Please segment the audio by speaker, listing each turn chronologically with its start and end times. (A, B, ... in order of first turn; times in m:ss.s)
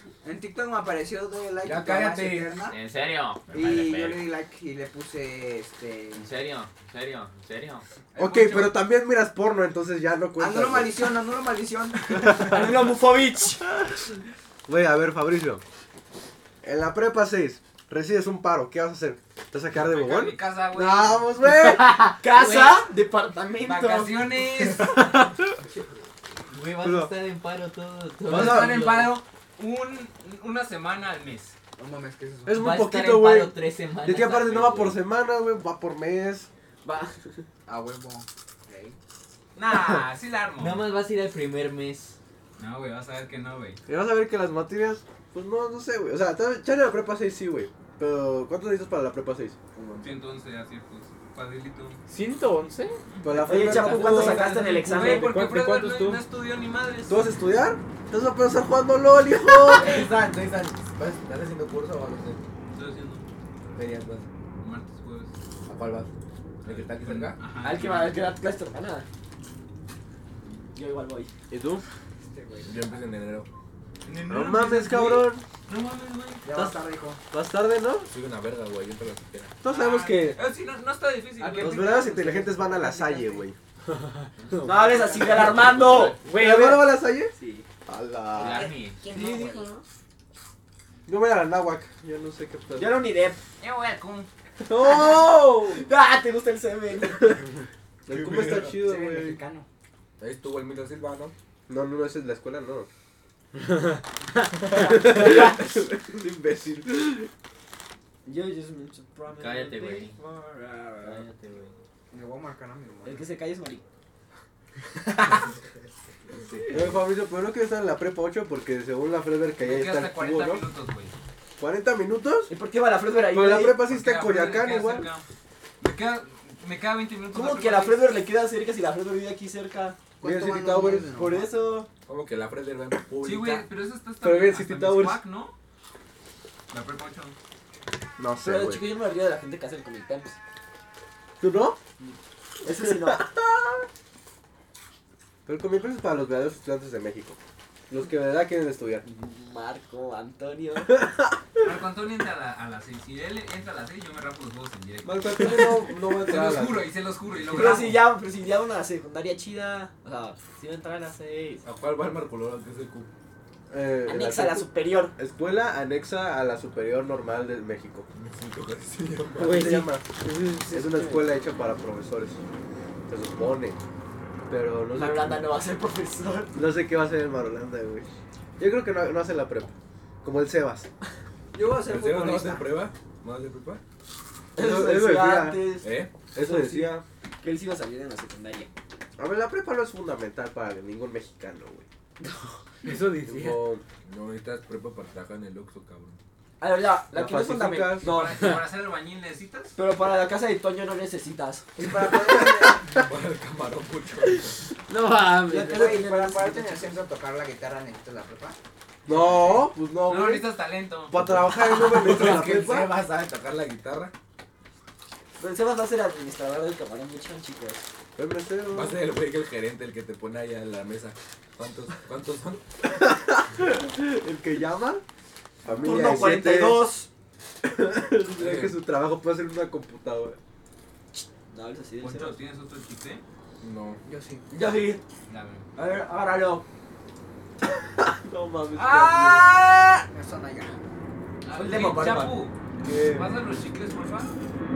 0:00.2-0:02.8 A
0:01.6-0:02.6 B
0:02.7-0:04.3 C
0:03.5-0:06.3 A
0:06.2-0:07.8 C
0:08.2-0:08.7 D
0:08.2-0:11.1 E
0:10.4-0:12.6 A
0:12.2-0:13.7 F
0:14.7-0:15.6 E
0:16.6-0:22.1 E
0:19.7-0:21.3 D
0:21.6-0:24.3 F
0:22.3-0:22.9 C
0:23.6-0:25.1 D
0:26.5-0:29.1 C
0:26.8-0:27.1 E
0:28.3-0:31.6 D
0:28.3-0:28.9 E
0:31.8-0:32.7 A
0:32.4-0:36.5 E
0:32.6-0:35.0 C
0:36.8-0:37.4 F
0:37.7-0:39.0 A
0:39.6-0:40.8 D
0:40.6-0:42.2 C
0:42.6-0:43.8 D
0:43.9-0:49.6 E
0:50.0-0:52.0 D
0:52.1-0:53.0 G
0:53.2-0:54.5 E
0:53.4-0:55.4 F
0:54.0-0:54.6 B
0:54.2-0:56.2 G
0:54.8-0:57.2 D
0:57.1-1:00.1 E
0:59.7-1:02.4 B
1:02.7-1:03.3 D
1:03.8-1:04.3 B
1:04.6-1:05.3 D
1:05.7-1:06.1 B
1:06.6-1:07.5 B
1:06.6-1:08.3 D
1:07.6-1:09.1 F
1:10.7-1:11.3 F
1:11.5-1:11.8 E
1:12.2-1:12.9 A
1:12.6-1:13.5 B
1:14.0-1:16.8 D
1:14.3-1:15.4 E
1:16.4-1:17.2 A
1:17.3-1:18.1 E
1:18.1-1:19.6 B
1:19.6-1:20.4 E
1:19.6-1:22.0 D
1:21.4-1:23.4 A
1:21.5-1:23.6 E
1:23.9-1:24.8 G
1:24.6-1:26.3 F
1:26.2-1:27.0 G
1:26.3-1:27.3 E
1:27.3-1:27.7 F
1:27.9-1:28.7 E
1:28.4-1:29.0 C
1:29.0-1:29.7 A
1:29.1-1:29.6 F
1:31.1-1:33.0 E
1:32.8-1:33.4 F
1:33.6-1:34.3 D
1:34.7-1:35.8 E
1:34.7-1:37.5 F
1:38.1-1:39.4 E
1:38.1-1:38.7 B
1:38.5-1:39.7 A
1:40.2-1:41.3 B
1:41.7-1:42.9 E
1:43.6-1:44.0 G
1:44.7-1:47.3 E
1:48.2-1:51.3 F
1:49.3-1:50.2 C
1:51.0-1:51.7 C
1:52.1-1:53.3 A
1:53.0-1:53.8 F
1:56.7-2:00.7 E
1:59.6-2:01.1 D
2:01.6-2:02.5 E
2:02.5-2:03.8 F
2:03.3-2:05.1 E
2:03.8-2:05.2 D
2:05.8-2:08.1 D
2:07.3-2:10.0 F
2:10.2-2:11.6 A
2:10.2-2:11.1 E
2:10.9-2:11.9 F
2:12.1-2:13.7 B
2:13.2-2:15.6 D
2:14.2-2:15.2 E
2:16.7-2:17.4 D
2:18.2-2:18.8 E
2:18.4-2:20.4 F
2:21.4-2:21.8 E
2:22.6-2:23.3 F
2:23.0-2:23.3 E
2:25.5-2:29.0 E
2:29.0-2:31.0 F
2:31.6-2:38.1 D
2:35.0-2:36.9 E
2:37.5-2:41.6 F
2:41.6-2:43.1 B
2:43.7-2:48.1 E
2:44.0-2:45.2 F
2:48.2-2:49.6 B
2:49.3-2:51.3 G
2:49.4-2:50.1 E
2:50.7-2:52.4 E
2:53.1-2:53.8 E
2:54.5-2:55.5 E
2:54.9-2:56.6 F
2:56.5-2:58.1 E
2:58.6-3:00.9 E
3:01.5-3:02.7 A
3:01.7-3:03.8 B
3:04.6-3:07.0 E
3:04.6-3:08.7 F
3:05.8-3:06.2 B
3:09.2-3:11.9 E
3:12.2-3:12.6 F
3:12.8-3:13.7 G
3:13.2-3:13.8 E
3:14.0-3:16.2 B
3:16.6-3:18.6 F
3:17.1-3:18.1 E
3:18.0-3:19.8 D
3:19.8-3:21.8 F
3:21.8-3:23.0 A
3:22.9-3:24.6 B
3:24.9-3:27.0 F
3:24.9-3:25.8 G
3:25.5-3:28.6 A
3:29.1-3:30.6 E
3:30.0-3:31.2 D
3:31.1-3:33.0 E
3:31.1-3:34.1 B
3:35.4-3:37.9 F
3:38.2-3:39.0 E
3:38.7-3:42.6 B
3:43.0-3:45.0 E
3:45.6-3:46.9 E
3:45.8-3:47.1 F
3:47.7-3:50.4 E
3:48.4-3:48.8 B
3:51.5-3:52.4 F
3:52.0-3:53.2 D
3:53.6-3:54.0 B
3:54.0-3:54.5 A
3:54.5-3:55.0 F
3:55.3-3:55.7 D
3:55.8-3:56.6 F
3:58.3-3:59.4 E
3:58.8-3:59.7 D
4:00.1-4:00.9 A
4:01.4-4:04.3 D
4:01.5-4:02.5 F
4:02.8-4:03.4 E